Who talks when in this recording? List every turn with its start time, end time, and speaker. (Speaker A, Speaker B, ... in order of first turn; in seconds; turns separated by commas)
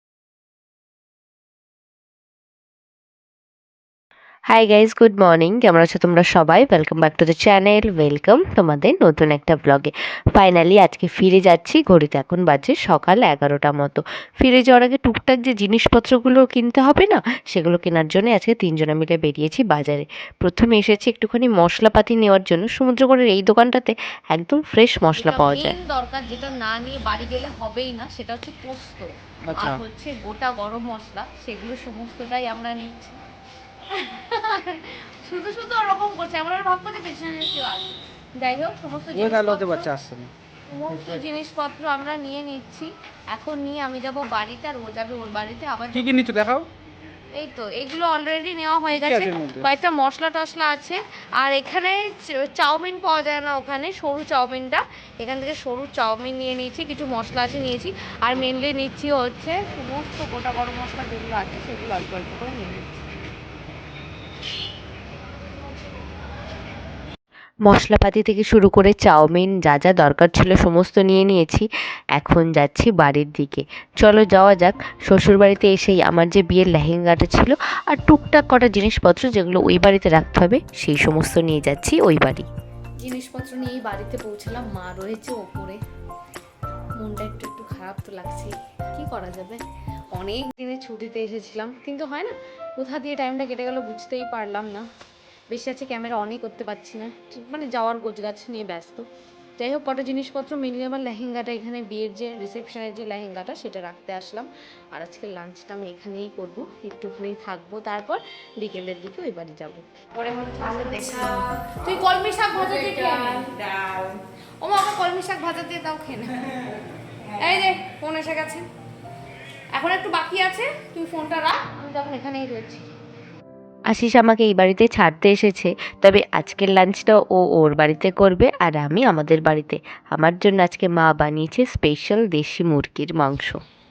Speaker A: 4.5-25.8, Speaker B: 25.1-33.2, Speaker C: 29.5-29.8, Speaker B: 33.9-39.9, Speaker C: 39.1-40.3, Speaker B: 40.7-46.2, Speaker C: 45.9-46.7, Speaker B: 47.3-63.0, Speaker C: 49.0-49.6, Speaker A: 67.7-82.5, Speaker B: 83.0-85.8, Speaker B: 87.0-89.6, Speaker B: 90.1-94.8, Speaker B: 95.5-99.1, Speaker B: 99.6-116.4, Speaker B: 117.4-118.7, Speaker B: 119.7-122.8, Speaker A: 123.9-133.6